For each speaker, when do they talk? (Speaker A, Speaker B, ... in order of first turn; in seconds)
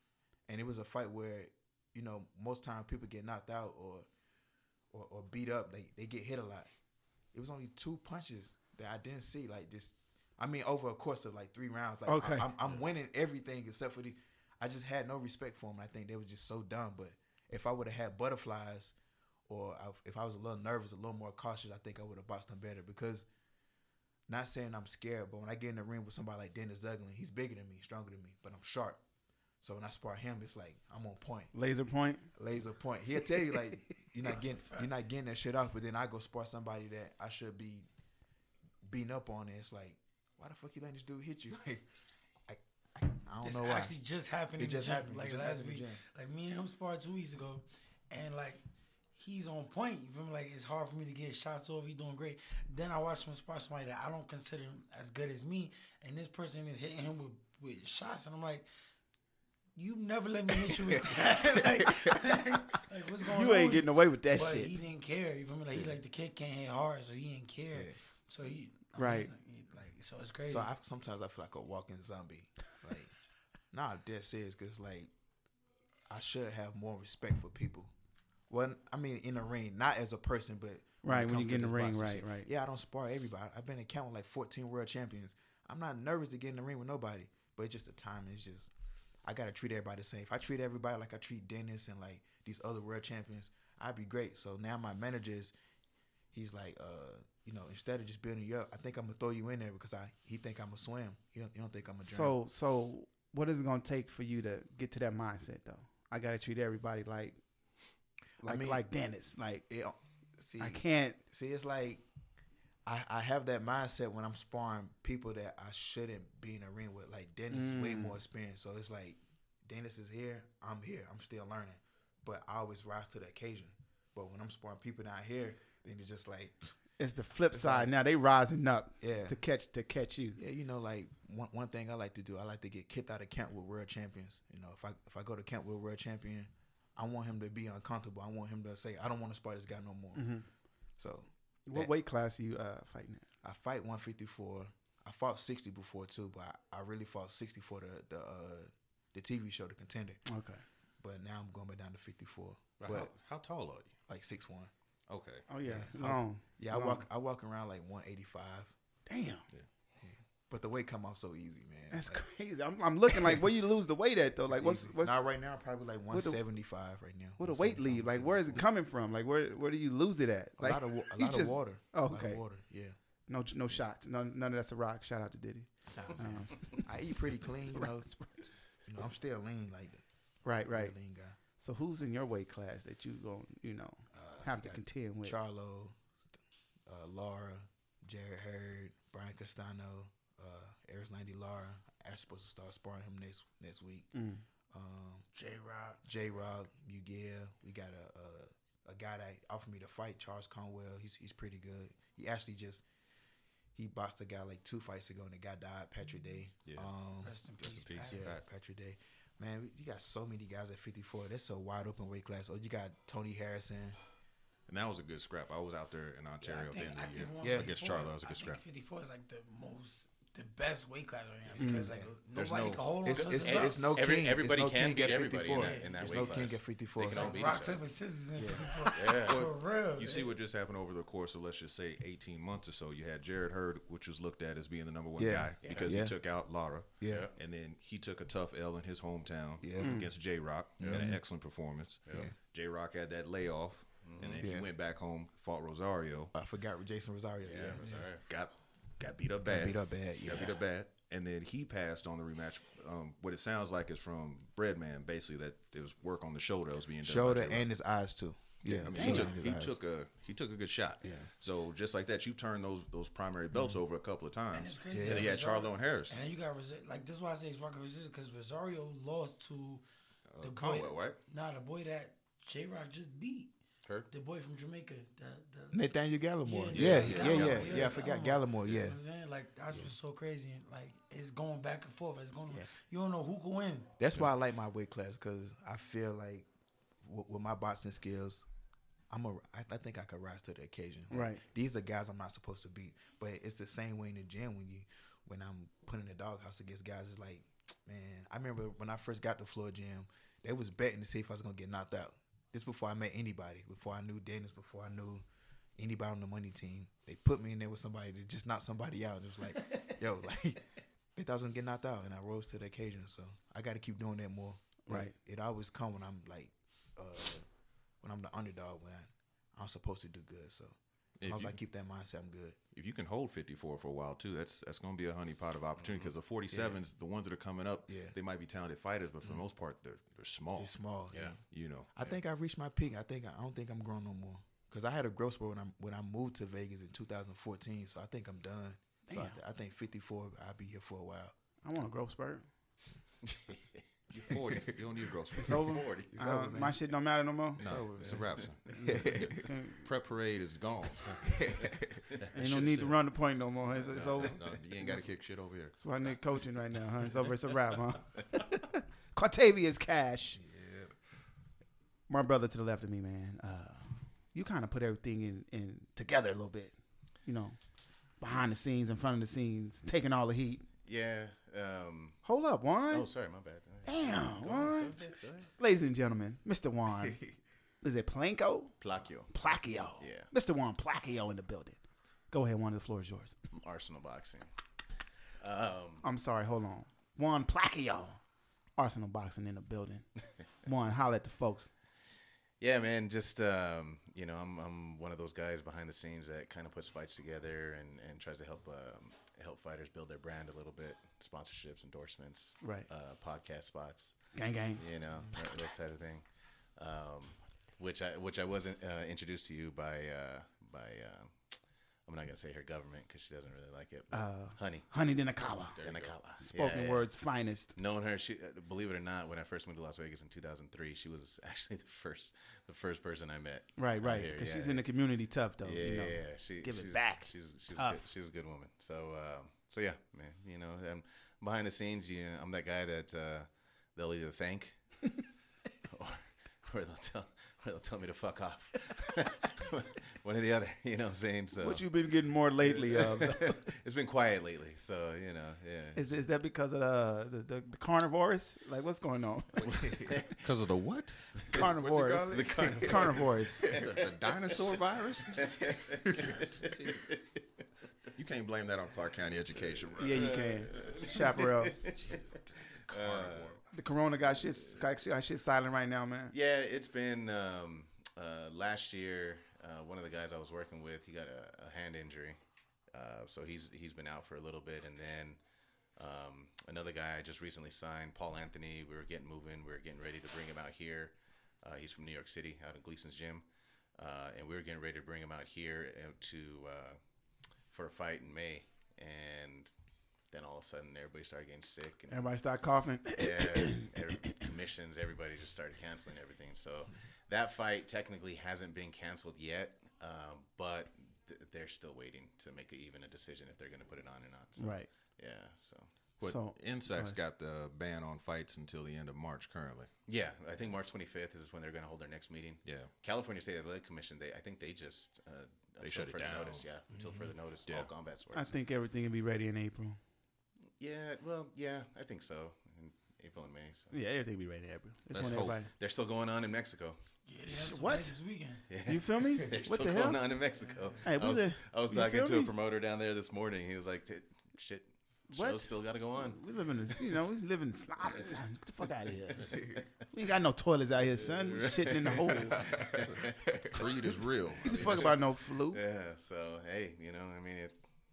Speaker A: 0.5-4.1, 4.9-6.7, 7.3-18.9, 19.5-23.3, 24.3-29.0, 29.6-31.5, 32.4-37.9, 38.9-41.9, 42.5-44.0, 44.6-46.0, 61.1-62.2, 70.5-73.1, 73.7-75.1, 76.1-77.9, 78.5-88.7, 89.2-95.5, 96.3-102.3, 108.4-108.8, 109.7-112.0, 112.9-126.8, 127.5-127.9, 129.0-129.4, 130.4-140.4, 141.0-141.9, 143.4-150.2, 151.0-153.1, 154.1-154.7, 155.6-158.7, 160.0-162.2, 164.5-168.6, 170.6-173.0, 175.9-178.1, 178.9-180.0, 180.7-181.4, 184.2-186.0, 186.9-194.1, 194.7-195.3, 196.0-202.8, 203.8-207.4, 208.0-214.0, 217.4-217.7, 221.5-222.1, 223.1-227.5, 228.4-228.7, 235.2-236.2, 237.0-237.3, 239.6-239.9, 240.9-241.2, 242.1-242.3, 244.4-244.7, 246.3-248.0, 249.4-250.6, 257.0-259.8, 261.0-261.3, 263.5-263.8, 264.9-265.4, 275.7-279.0, 284.0-286.5, 287.0-288.4, 289.1-305.2, 305.8-310.6, 311.2-317.5, 318.0-322.6, 326.5-326.8, 327.9-328.1, 330.6-331.4, 331.9-341.4, 346.1-346.8, 347.6-349.5, 351.2-352.0
Speaker B: 12.1-12.5, 31.5-32.3, 63.2-64.7, 69.0-69.3, 81.0-82.5, 102.0-107.4, 108.4-109.7, 110.6-111.2, 117.5-118.2, 127.0-130.4, 140.2-140.5, 141.7-143.3, 150.3-150.6, 155.5-157.1, 159.1-159.4, 161.9-165.2, 166.1-166.4, 167.4-172.4, 173.3-178.3, 180.4-180.9, 181.6-185.4, 194.1-194.4, 221.6-221.9, 239.8-240.1, 258.7-259.3, 291.1-291.4, 314.9-315.1, 339.1-339.4, 341.6-342.5, 345.4-347.7, 348.7-349.9, 352.3-355.0, 355.8-360.4, 362.1-366.7, 367.2-367.6, 368.2-370.6, 372.2-373.1, 373.9-377.2, 377.8-378.7, 379.3-381.8, 382.3-383.4, 386.0-388.2, 388.8-390.1, 390.6-391.7, 402.6-402.9, 404.3-404.8, 414.1-415.8, 416.4-417.8, 423.8-428.0, 441.6-443.6, 445.9-450.1, 451.5-453.8, 460.0-461.8, 463.7-466.3, 492.1-494.4, 504.6-504.9, 506.2-507.2, 518.3-520.0, 523.9-525.7, 527.5-528.2, 528.9-530.2, 531.0-532.5, 535.3-542.9, 544.6-545.8
Speaker C: 34.2-34.9, 43.4-48.6, 49.1-58.7, 59.8-70.7, 195.3-196.0, 207.2-208.2, 216.4-223.8, 225.5-226.4, 227.0-230.3, 264.5-269.8, 270.4-273.5, 274.1-275.8, 276.4-283.9, 527.3-528.6
Speaker D: 152.8-153.9, 155.1-155.4, 207.6-208.4, 214.7-218.6, 222.3-222.9, 229.2-246.3, 247.8-257.7, 258.8-266.2, 270.3-271.2, 276.7-277.9, 321.2-321.6, 322.7-331.9, 344.1-345.8, 347.6-353.0, 353.9-355.8, 360.4-360.9, 415.7-416.2, 449.6-457.1, 458.1-463.6, 506.2-509.9, 512.6-512.9, 515.8-516.7, 525.1-525.6, 542.6-545.2
Speaker E: 223.2-227.9, 228.9-229.5, 235.6-236.0, 237.1-237.3, 240.8-241.2, 242.1-242.3, 244.0-244.5, 247.4-248.3, 325.8-326.1, 343.2-343.8, 345.6-346.2, 353.9-354.3, 370.9-372.2, 372.9-375.5, 378.8-379.4, 380.0-380.3, 383.5-384.5, 385.4-386.1, 392.6-414.9, 415.8-417.1, 417.8-424.8, 425.6-434.8, 435.9-441.9, 442.7-446.1, 449.7-450.3, 452.2-454.1, 455.3-457.2, 460.1-462.2, 462.9-463.6, 466.3-472.4, 472.9-475.4, 476.0-483.4, 484.0-487.0, 487.7-489.7, 490.3-492.3, 493.2-505.9, 510.1-518.5, 520.8-523.9, 525.2-527.0, 528.7-536.4, 539.3-539.8, 541.1-543.8, 544.7-545.2, 545.7-547.8